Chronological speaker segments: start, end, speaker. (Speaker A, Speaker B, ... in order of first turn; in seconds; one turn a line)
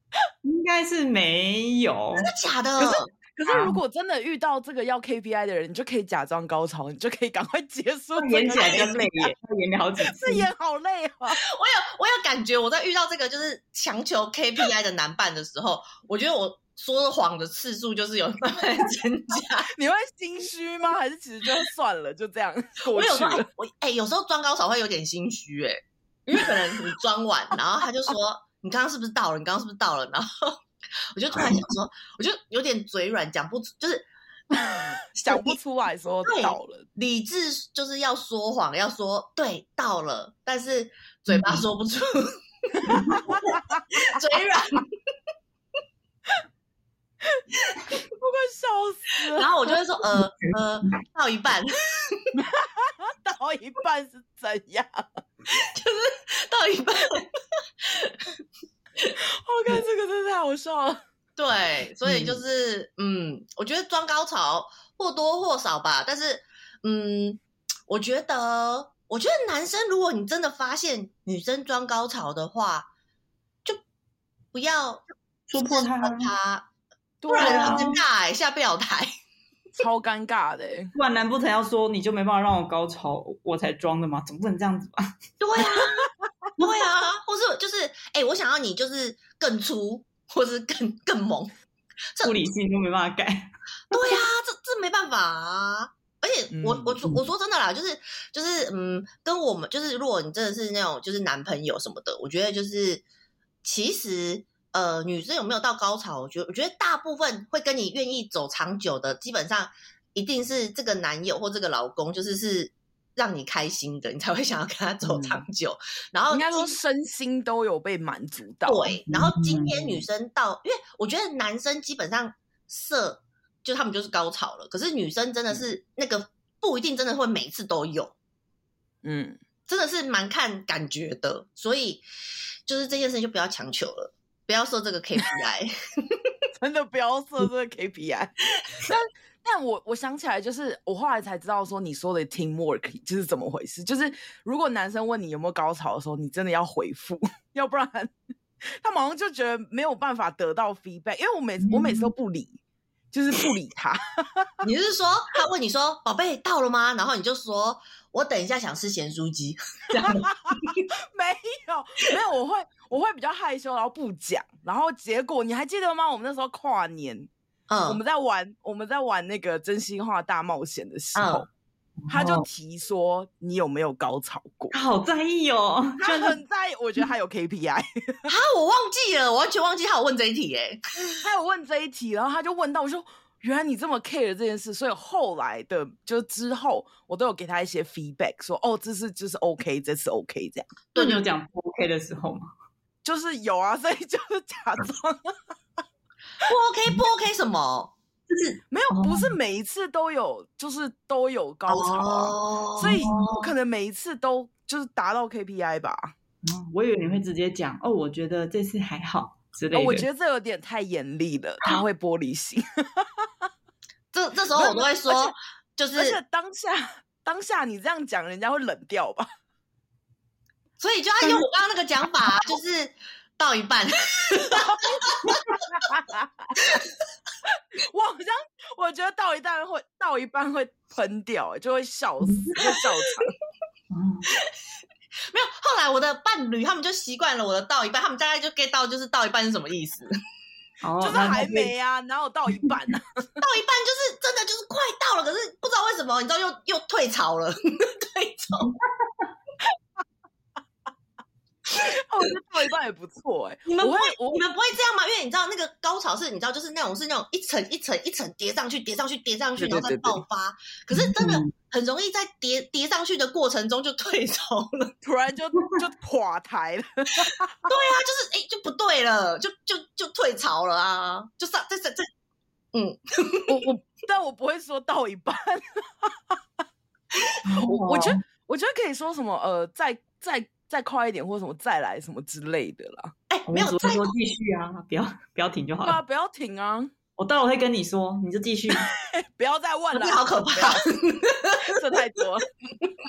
Speaker A: 0.4-2.3
Speaker B: 2.2-3.1
Speaker C: 2.8-9.3
Speaker A: 3.5-3.8
Speaker A: 8.2-10.5
Speaker C: 10.0-11.4
Speaker B: 11.5-19.7
Speaker C: 19.8-23.5
Speaker B: 22.9-30.6
Speaker B: 31.1-34.1
Speaker C: 34.7-36.9
Speaker B: 35.1-35.6
Speaker B: 36.2-44.9
Speaker C: 42.9-43.8
Speaker C: 47.9-49.5
Speaker B: 49.4-52.4
Speaker C: 52.4-55.0
Speaker B: 55.5-57.3
Speaker B: 57.8-58.3
Speaker C: 59.3-61.0
Speaker B: 61.4-72.9
Speaker C: 62.1-62.4
Speaker B: 74.5-75.0
Speaker A: 75.5-76.3
Speaker B: 75.6-76.7
Speaker C: 77.2-77.9
Speaker B: 77.3-79.1
Speaker A: 77.3-78.0
Speaker C: 79.8-80.9
Speaker A: 81.0-85.1
Speaker B: 85.4-91.5
Speaker B: 92.2-92.5
Speaker A: 92.2-93.5
Speaker B: 93.9-103.0
Speaker C: 96.5-97.1
Speaker B: 103.6-116.8
Speaker C: 115.0-115.4
Speaker C: 116.3-119.0
Speaker B: 118.7-128.2
Speaker A: 119.1-120.0
Speaker C: 129.0-129.4
Speaker B: 129.7-132.0
Speaker B: 132.7-135.7
Speaker C: 136.6-148.1
Speaker C: 148.8-152.6
Speaker A: 151.6-152.1
Speaker C: 153.1-154.5
Speaker B: 154.6-160.8
Speaker C: 159.9-160.6
Speaker C: 161.1-167.3
Speaker B: 167.7-168.0
Speaker C: 167.9-171.5
Speaker B: 171.2-171.5
Speaker A: 172.0-172.5
Speaker C: 172.1-174.7
Speaker A: 174.7-176.3
Speaker C: 176.0-178.3
Speaker B: 178.3-180.8
Speaker C: 181.2-190.7
Speaker B: 190.9-191.3
Speaker A: 191.0-192.5
Speaker C: 193.0-195.3
Speaker B: 196.4-197.9
Speaker A: 198.3-199.3
Speaker C: 198.7-206.1
Speaker B: 201.7-203.5
Speaker A: 202.8-203.2
Speaker A: 206.4-210.1
Speaker C: 209.7-213.3
Speaker B: 214.1-216.2
Speaker C: 214.5-215.3
Speaker C: 215.9-219.3
Speaker B: 220.8-225.5
Speaker C: 224.6-226.5
Speaker C: 227.5-233.3
Speaker A: 233.9-234.3
Speaker B: 235.3-240.1
Speaker A: 240.8-241.7
Speaker C: 241.0-243.2
Speaker B: 243.4-248.7
Speaker C: 251.8-254.4
Speaker B: 253.7-264.9
Speaker C: 259.6-260.2
Speaker A: 260.9-261.5
Speaker C: 265.0-267.7
Speaker B: 267.7-272.1
Speaker B: 272.7-273.6
Speaker C: 273.5-276.4
Speaker A: 277.4-278.2
Speaker C: 277.6-283.1
Speaker B: 283.3-284.1
Speaker A: 283.5-286.0
Speaker C: 285.8-286.9
Speaker A: 287.2-288.9
Speaker C: 288.9-290.8
Speaker B: 289.9-291.9
Speaker C: 291.6-292.5